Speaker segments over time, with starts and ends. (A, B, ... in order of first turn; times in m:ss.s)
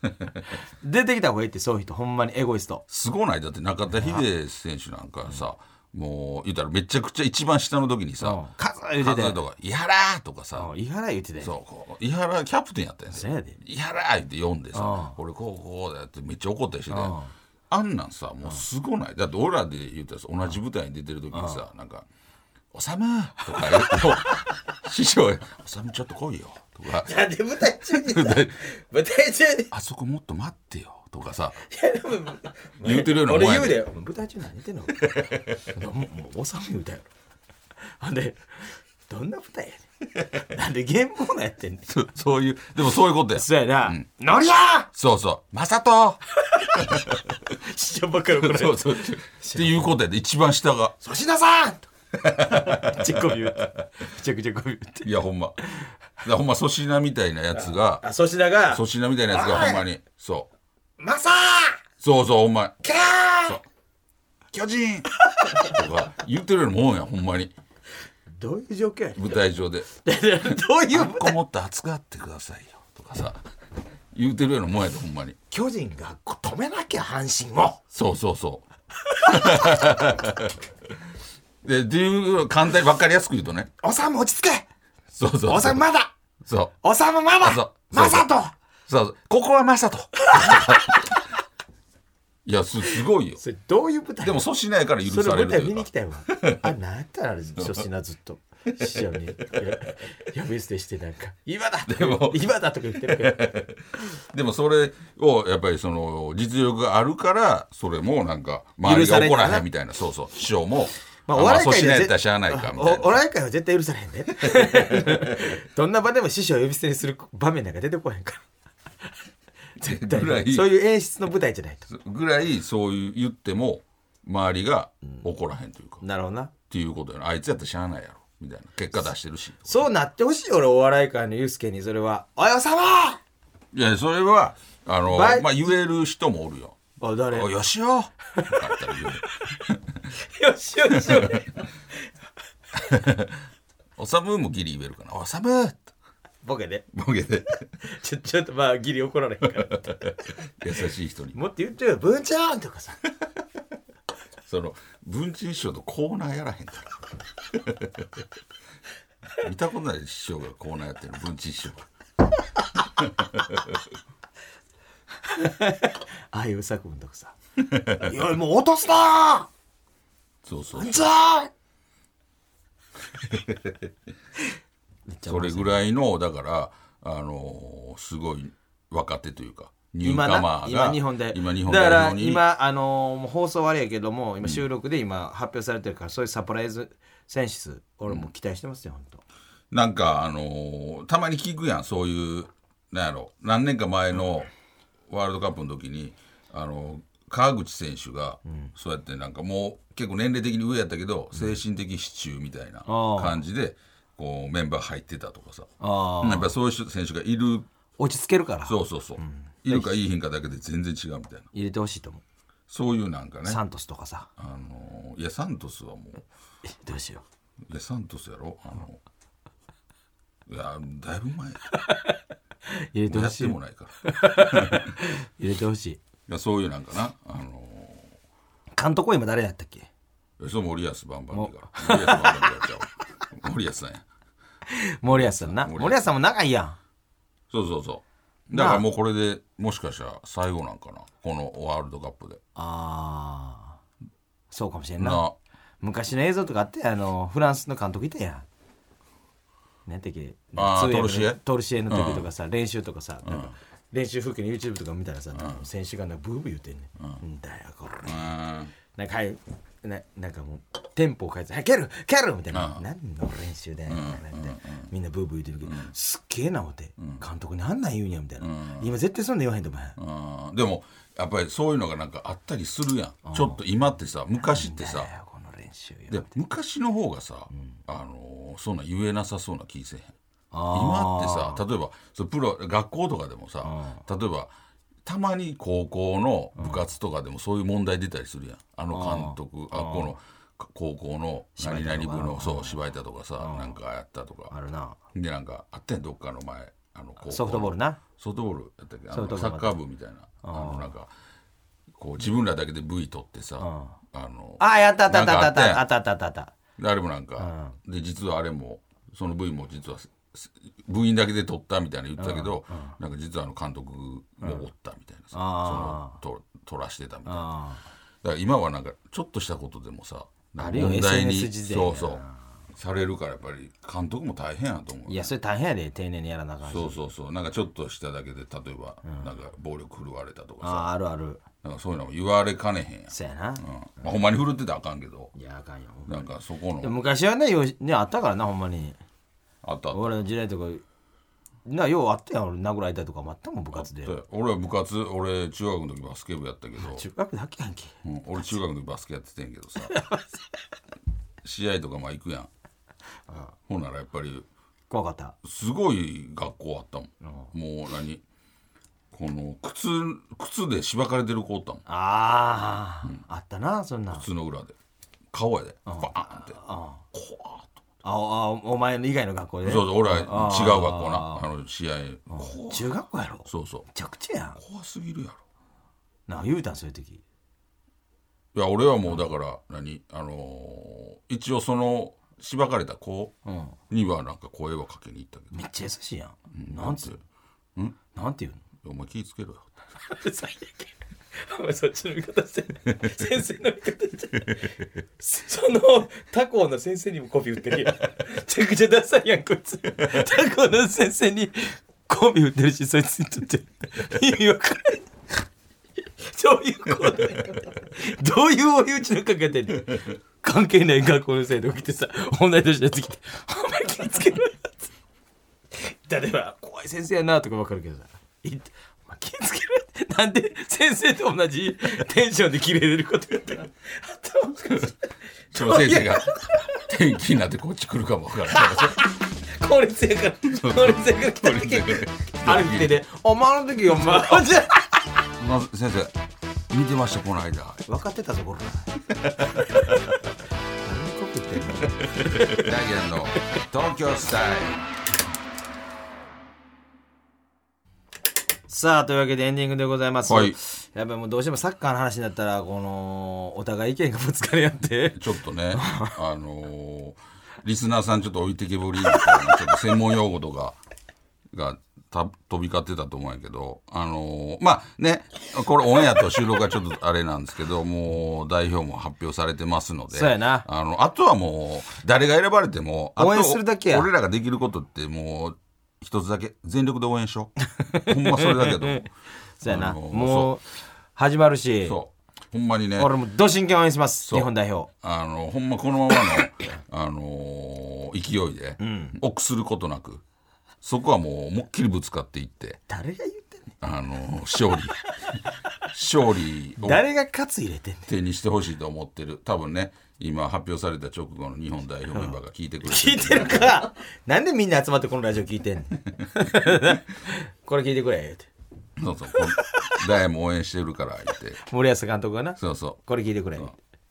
0:00.8-0:02.8 A
0:02.9-0:08.4 B
0:03.9-0:04.3 A
0:08.2-0:09.4 A
0:09.0-0:10.7 B
0:10.6-0:11.5 A
0:11.4-0:17.2 B
0:13.1-0:13.6 A
0:14.7-0:15.2 A
0:16.9-0:17.3 A
0:17.7-0:22.1 B
0:21.3-0:21.6 A
0:22.7-0:27.2 B
0:23.6-0:24.4 A
0:27.0-0:29.7 A
0:27.8-0:28.6 B
0:29.7-0:31.6 B
0:31.7-0:37.1 A
0:32.8-0:33.9 B
0:35.0-0:35.6 B
0:38.0-0:41.9 A
0:41.9-0:44.0 B
0:43.4-0:44.9 A
0:44.9-0:46.2 B
0:46.4-0:49.9 A
0:46.8-0:47.2 B
0:48.4-0:51.0 B
0:51.0-0:55.1 A
0:52.2-0:53.6 B
0:55.0-0:55.6 B
0:56.2-0:58.1 B
0:57.5-0:59.8 A
0:58.7-1:00.5 B
1:01.0-1:01.8 A
1:02.0-1:02.8 B
1:02.8-1:03.6 A
1:04.5-1:05.1 B
1:05.4-1:05.7 A
1:05.6-1:07.6 B
1:08.4-1:09.4 A
1:09.2-1:09.9 B
1:10.0-1:11.4 A
1:10.5-1:13.4 B
1:14.1-1:15.4 B
1:15.5-1:17.8 A
1:17.9-1:18.7 B
1:19.2-1:19.9 A
1:19.2-1:20.6 B
1:21.6-1:23.7 B
1:23.8-1:24.7 A
1:25.1-1:25.8 B
1:25.5-1:26.1 A
1:26.4-1:26.8 B
1:26.8-1:28.5 A
1:27.4-1:28.3 B
1:28.9-1:31.0 B
1:30.2-1:30.9 A
1:32.4-1:33.4 B
1:33.4-1:34.5 A
1:34.2-1:36.7 B
1:35.0-1:43.6 A
1:37.6-1:37.8 B
1:38.8-1:39.5 B
1:41.9-1:53.2 B
1:48.8-1:49.7 A
1:51.3-1:58.4 A
1:54.4-1:55.3 B
1:59.8-2:01.9 A
1:59.8-2:00.7 B
2:01.9-2:06.0 B
2:06.0-2:06.5 A
2:06.7-2:09.9 B
2:09.7-2:13.2 A
2:13.7-2:16.8 B
2:15.0-2:15.7 A
2:17.0-2:17.5 A
2:17.3-2:19.8 B
2:18.4-2:19.0 A
2:20.1-2:21.7 A
2:20.9-2:21.4 B
2:22.8-2:23.4 B
2:24.0-2:25.9 B
2:26.4-2:26.9 A
2:26.9-2:27.6 B
2:27.8-2:30.1 A
2:29.6-2:31.4 B
2:31.3-2:33.0 A
2:34.4-2:37.0 B
2:37.5-2:38.2 B
2:39.4-2:41.8 B
2:43.0-2:43.8 B
2:45.2-2:47.4 A
2:47.6-2:48.2 B
2:47.9-2:49.5 A
2:50.4-2:51.0 B
2:50.8-2:51.5 A
2:53.2-2:53.9 B
2:55.1-2:55.8 A
2:55.3-3:02.4 B
3:00.0-3:09.2 A
3:09.7-3:14.5 B
3:15.1-3:25.7 B
3:18.5-3:18.7 A
3:22.9-3:23.4 A
3:25.8-3:26.5 A
3:26.2-3:27.7 B
3:28.0-3:29.9 A
3:28.6-3:31.5 B
3:31.5-3:32.2 A
3:32.7-3:33.6 B
3:33.5-3:34.3 A
3:34.4-3:36.2 B
3:36.6-3:37.2 A
3:37.7-3:39.0 B
3:40.5-3:41.7 B
3:41.8-3:42.2 A
3:42.7-3:46.0 A
3:43.1-3:44.9 B
3:46.3-3:48.1 B
3:48.7-3:49.9 A
3:50.4-3:54.0 B
3:51.3-3:52.6 A
3:54.7-3:56.8 A
3:55.0-3:56.1 B
3:57.5-4:02.4 B
3:58.5-3:58.8 A
4:02.6-4:03.8 A
4:04.5-4:05.2 A
4:05.0-4:05.4 B
4:05.8-4:08.5 A
4:09.9-4:30.0 A
4:10.6-4:12.3 B
4:13.2-4:13.6 B
4:15.4-4:15.6 B
4:18.0-4:18.7 B
4:22.5-4:22.8 B
4:23.9-4:24.9 B
4:25.6-4:25.9 B
4:28.4-4:28.9 B
4:30.0-4:35.1 B
4:33.2-4:33.6 A
4:34.4-4:36.3 A
4:36.1-4:40.2 B
4:40.5-4:41.6 A
4:40.7-4:44.5 B
4:43.6-4:44.0 A
4:45.0-4:54.5 B
4:48.9-4:50.2 A
4:51.6-4:52.8 A
4:53.4-4:53.8 A
4:54.5-4:55.0 A
4:55.1-5:01.1 B
4:57.2-4:58.0 A
4:59.1-4:59.8 A
5:00.4-5:00.9 A
5:01.9-5:05.8 B
5:03.6-5:04.0 A
5:04.6-5:06.5 A
5:06.8-5:17.5 B
5:07.4-5:07.8 A
5:12.2-5:13.0 A
5:15.3-5:16.2 A
5:17.3-5:17.8 A
5:18.2-5:25.3 B
5:20.6-5:22.4 A
5:25.1-5:27.0 A
5:26.7-5:30.9 B
5:30.6-5:31.4 A
5:31.6-5:35.3 B
5:33.1-5:33.6 A
5:35.4-5:36.2 A
5:36.1-5:36.9 B
5:36.8-5:39.0 A
5:39.6-5:40.1 B
5:39.9-5:40.8 A
5:41.7-5:44.2 A
5:43.7-5:47.0 B
5:46.8-5:48.0 A
5:48.0-5:50.0 B
5:49.9-5:50.3 A
5:51.4-5:52.5 B
5:53.7-5:54.5 B
5:54.9-5:55.4 A
5:55.4-5:58.2 B
5:57.2-5:57.5 A
5:59.1-6:01.8 B
6:01.9-6:04.3 A
6:04.1-6:04.8 B
6:05.3-6:06.6 B
6:05.9-6:07.0 A
6:07.1-6:07.8 B
6:08.0-6:11.4 A
6:09.6-6:12.9 B
6:12.3-6:14.6 A
6:13.5-6:13.9 B
6:14.6-6:15.4 B
6:16.3-6:17.2 A
6:18.5-6:23.4 B
6:23.5-6:23.8 A
6:23.9-6:25.5 B
6:25.5-6:27.1 A
6:26.5-6:27.2 B
6:28.1-6:28.6 A
6:28.8-6:29.7 B
6:30.1-6:45.1 A
6:46.2-6:54.9 A
6:55.7-7:06.8 A
7:05.5-7:09.0 B
7:08.5-7:14.9 A
7:10.5-7:13.0 B
7:13.9-7:14.6 B
7:15.4-7:16.1 B
7:16.7-7:17.9 B
7:17.9-7:19.0 A
7:19.2-7:19.8 B
7:20.8-7:22.7 A
7:22.2-7:24.8 B
7:28.7-7:36.2 A
7:30.3-7:30.6 B
7:35.2-7:40.8 B
7:41.5-7:59.1 B
7:50.1-7:50.7 A
7:53.2-7:54.1 A
7:57.8-7:59.0 A
7:59.6-8:00.6 A
7:59.6-8:00.6 B
8:01.2-8:02.0 A
8:01.8-8:03.1 B
8:03.0-8:04.9 A
8:04.2-8:10.2 B
8:08.8-8:09.2 A
8:10.8-8:12.8 B
8:12.9-8:13.7 A
8:13.8-8:15.4 B
8:15.9-8:17.0 B
8:16.8-8:18.1 A
8:18.1-8:23.8 B
8:22.1-8:28.5 A
8:29.0-8:31.6 B
8:29.6-8:29.9 A
8:31.6-8:33.8 A
8:32.6-8:33.0 B